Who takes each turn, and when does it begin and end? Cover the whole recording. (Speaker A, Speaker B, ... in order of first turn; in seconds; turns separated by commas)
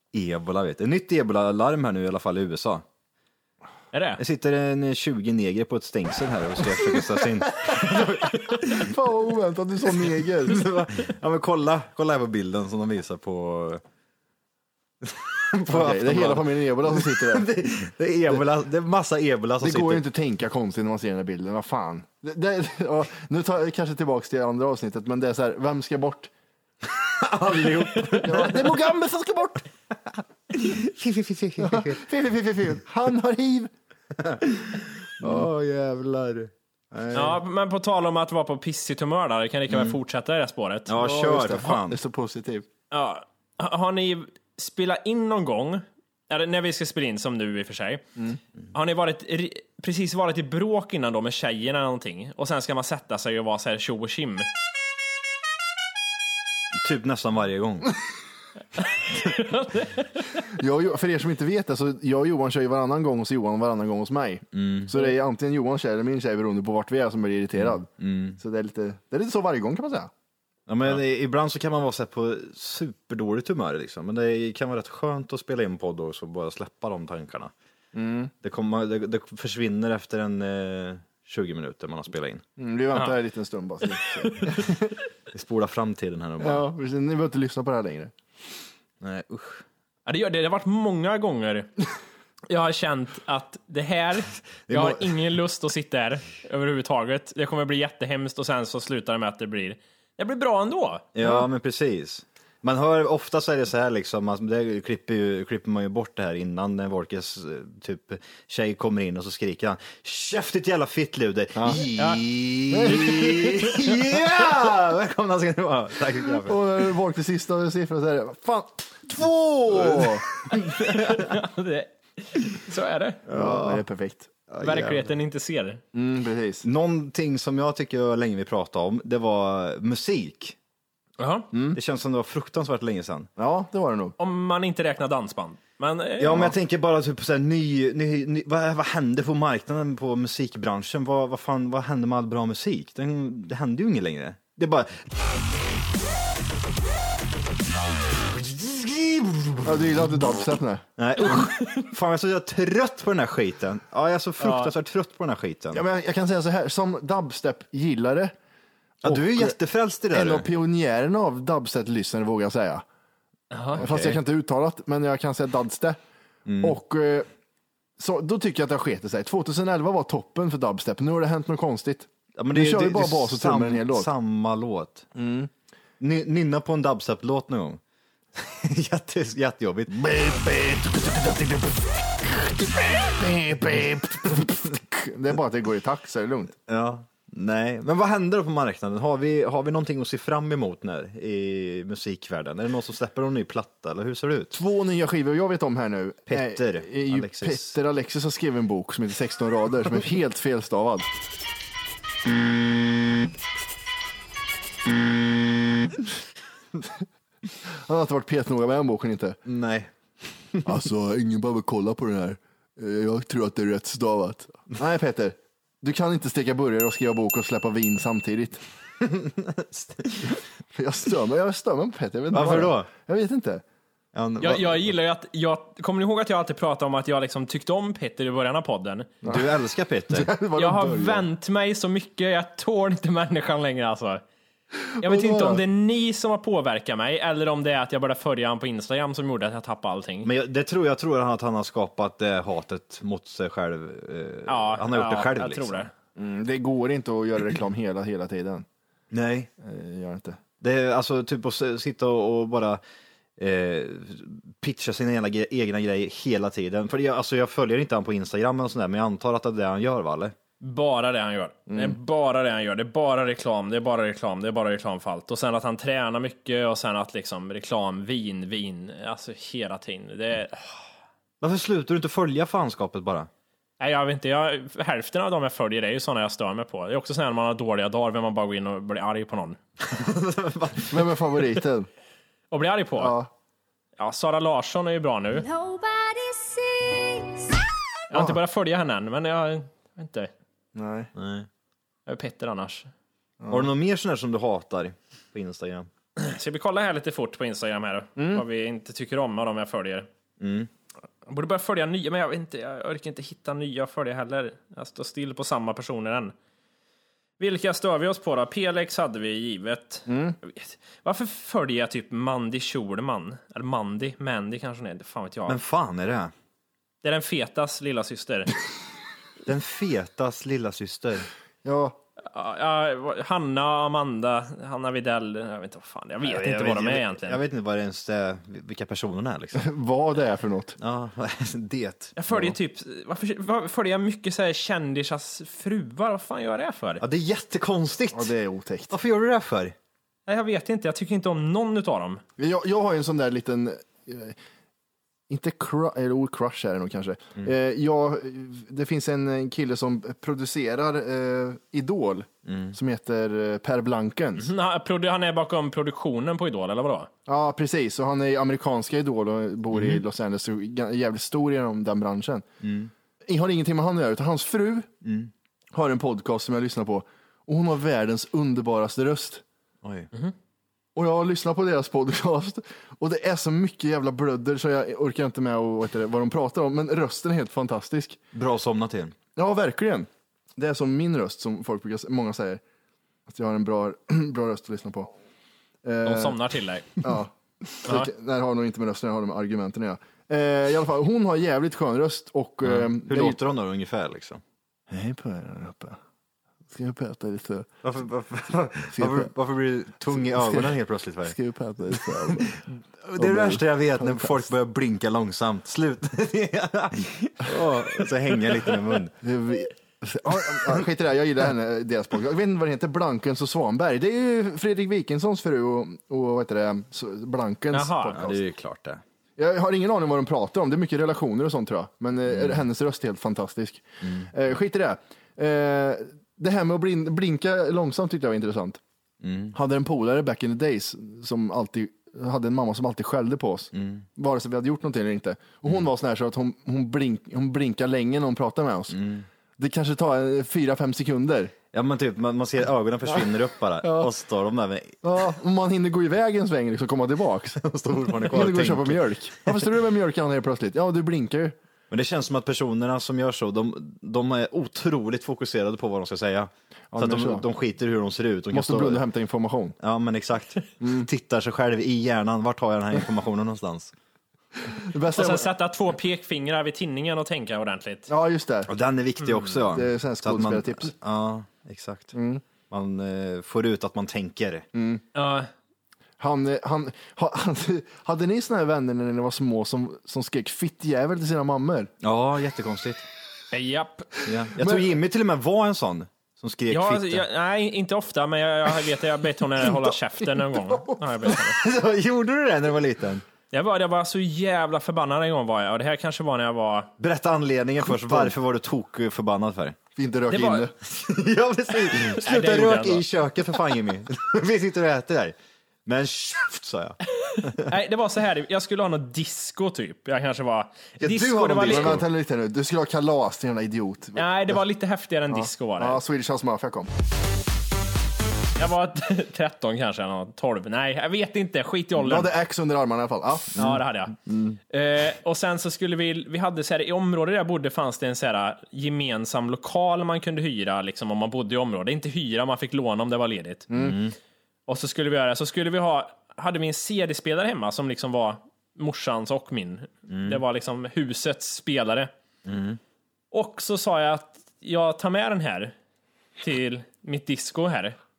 Speaker A: 0.1-2.8, Speaker B: 3.9-4.2, Speaker A: 4.2-8.9, Speaker C: 8.7-10.6, Speaker A: 9.8-13.8, Speaker A: 15.0-20.0, Speaker C: 15.7-17.5, Speaker C: 19.6-26.3, Speaker A: 26.9-28.8, Speaker C: 28.2-29.6, Speaker A: 30.5-32.0, Speaker C: 31.6-33.7, Speaker A: 34.1-37.4, Speaker B: 37.1-40.9, Speaker A: 39.7-40.0, Speaker A: 40.9-42.0, Speaker C: 41.0-42.6, Speaker B: 42.9-48.1, Speaker B: 48.7-54.5, Speaker A: 56.8-58.0, Speaker B: 58.8-60.1, Speaker C: 60.4-70.1, Speaker A: 64.5-64.9, Speaker A: 67.6-68.4, Speaker A: 70.7-77.5, Speaker C: 77.9-78.3, Speaker A: 78.4-82.4, Speaker C: 82.6-84.9, Speaker A: 85.3-86.7, Speaker C: 86.4-88.1, Speaker A: 89.0-89.6, Speaker B: 90.0-91.7, Speaker B: 92.5-101.2, Speaker A: 94.7-95.2, Speaker A: 101.1-116.6, Speaker C: 111.5-111.8, Speaker B: 112.0-112.2, Speaker C: 112.7-113.5, Speaker C: 116.3-120.2, Speaker A: 119.2-121.3, Speaker B: 120.7-123.2, Speaker A: 123.2-123.8, Speaker C: 123.3-124.3, Speaker A: 124.5-125.1, Speaker B: 124.6-125.8, Speaker C: 125.9-126.6, Speaker A: 126.6-130.6, Speaker B: 131.2-131.5, Speaker C: 131.5-131.8, Speaker A: 131.7-133.3, Speaker C: 133.4-134.1, Speaker B: 134.2-136.5, Speaker A: 136.2-145.1, Speaker A: 148.2-149.9, Speaker C: 149.6-150.8, Speaker A: 151.0-155.8, Speaker B: 151.2-151.8, Speaker B: 154.4-154.7, Speaker C: 155.7-158.3, Speaker C: 159.0-159.6, Speaker A: 159.0-160.4, Speaker C: 160.1-162.8, Speaker B: 163.5-163.8, Speaker A: 163.7-164.2, Speaker C: 163.8-166.0, Speaker A: 166.4-166.8, Speaker C: 166.6-167.3, Speaker C: 168.0-174.1, Speaker A: 172.3-175.1, Speaker C: 175.1-175.5, Speaker A: 176.0-177.8, Speaker A: 178.3-179.9, Speaker C: 179.9-186.5, Speaker A: 186.7-194.5, Speaker C: 194.5-201.1, Speaker A: 196.3-197.8, Speaker A: 202.2-203.3, Speaker A: 204.8-206.1, Speaker C: 207.7-209.4, Speaker A: 209.4-209.9, Speaker C: 210.6-218.6, Speaker A: 219.0-220.4, Speaker C: 220.7-223.6, Speaker A: 222.3-222.9, Speaker A: 224.1-224.9, Speaker B: 224.4-229.1, Speaker A: 229.2-230.3, Speaker C: 230.1-231.3, Speaker B: 230.6-234.2, Speaker C: 234.9-235.6, Speaker B: 235.0-240.3, Speaker A: 240.2-245.9, Speaker B: 244.5-245.9, Speaker C: 246.2-248.7, Speaker A: 249.1-249.5, Speaker C: 249.6-250.4, Speaker A: 250.6-252.8, Speaker A: 253.4-260.4, Speaker B: 260.6-270.8, Speaker C: 261.7-262.0, Speaker A: 271.4-273.3, Speaker B: 273.8-279.6, Speaker A: 279.8-281.3, Speaker C: 280.9-281.9, Speaker B: 282.5-283.2, Speaker C: 282.9-283.3, Speaker B: 284.0-285.4, Speaker D: 285.3-287.6, Speaker B: 288.1-290.3, Speaker C: 290.7-291.1, Speaker A: 291.1-291.5, Speaker B: 292.1-292.9, Speaker C: 293.4-293.7, Speaker A: 293.5-295.9, Speaker B: 296.2-300.1, Speaker C: 298.2-298.4, Speaker A: 300.4-300.7, Speaker B: 301.2-306.3, Speaker B: 307.4-315.6, Speaker C: 310.1-310.4, Speaker A: 315.5-316.3, Speaker B: 317.0-318.6, Speaker A: 319.4-321.3, Speaker C: 321.6-322.0, Speaker B: 322.3-327.4, Speaker A: 326.2-329.7, Speaker C: 329.5-330.8, Speaker A: 330.8-332.5, Speaker B: 332.1-337.0, Speaker A: 337.0-338.3, Speaker C: 338.1-338.9, Speaker A: 338.9-339.7, Speaker B: 340.3-342.2, Speaker C: 342.4-344.4, Speaker C: 345.3-354.5, Speaker A: 352.4-352.7, Speaker B: 354.4-357.1, Speaker C: 357.3-362.4, Speaker A: 359.7-360.0, Speaker A: 362.6-362.9, Speaker C: 363.2-364.9, Speaker A: 365.0-365.3, Speaker C: 365.7-369.4, Speaker A: 369.8-370.1, Speaker C: 370.9-378.2, Speaker A: 378.3-379.1, Speaker C: 379.4-382.6, Speaker C: 383.3-385.1, Speaker C: 385.8-386.4, Speaker B: 386.1-387.0, Speaker C: 387.0-393.4, Speaker A: 392.6-394.4, Speaker C: 394.9-396.0, Speaker C: 396.7-397.7, Speaker A: 397.8-401.4, Speaker C: 398.9-399.3, Speaker C: 400.1-400.7, Speaker C: 401.2-402.6, Speaker A: 401.9-409.1, Speaker C: 403.1-404.4, Speaker C: 409.2-418.4, Speaker B: 417.7-418.2, Speaker A: 418.1-419.0, Speaker C: 419.4-428.8, Speaker A: 422.3-422.6, Speaker A: 424.0-424.3, Speaker A: 429.2-429.5, Speaker C: 429.5-439.0, Speaker A: 433.7-434.0, Speaker A: 438.9-439.2, Speaker C: 439.6-441.5, Speaker A: 441.7-445.0, Speaker C: 443.8-444.1, Speaker C: 445.0-447.6, Speaker A: 447.6-449.7, Speaker C: 448.2-451.6, Speaker A: 451.9-459.0, Speaker C: 456.9-457.4, Speaker C: 458.5-459.7, Speaker A: 459.8-463.9, Speaker C: 460.8-461.1, Speaker C: 464.7-465.5, Speaker B: 465.1-468.1, Speaker C: 468.1-468.7, Speaker A: 468.7-472.1, Speaker C: 469.7-470.9, Speaker C: 472.1-472.4, Speaker A: 472.7-474.6, Speaker C: 474.7-475.0, Speaker B: 475.1-475.5, Speaker C: 476.2-481.9, Speaker A: 482.0-483.0, Speaker B: 483.5-484.1, Speaker A: 484.2-487.2, Speaker C: 484.5-484.9, Speaker B: 486.7-491.6, Speaker C: 490.7-491.0, Speaker A: 491.5-493.2, Speaker B: 493.5-496.9, Speaker A: 497.0-499.8, Speaker C: 497.9-498.3, Speaker C: 499.9-500.7, Speaker B: 500.3-500.7, Speaker A: 500.8-507.7, Speaker B: 502.0-503.0, Speaker B: 507.2-512.0, Speaker A: 511.0-512.0, Speaker C: 511.3-514.5, Speaker B: 514.1-516.0, Speaker C: 515.3-516.9, Speaker B: 518.6-522.3, Speaker C: 522.0-523.7, Speaker B: 523.5-524.2, Speaker C: 524.3-524.5, Speaker B: 524.7-533.7, Speaker C: 533.7-534.0, Speaker A: 533.8-534.1, Speaker B: 534.7-542.1, Speaker A: 540.1-540.4, Speaker A: 542.5-542.8, Speaker B: 543.3-545.7, Speaker B: 546.4-548.0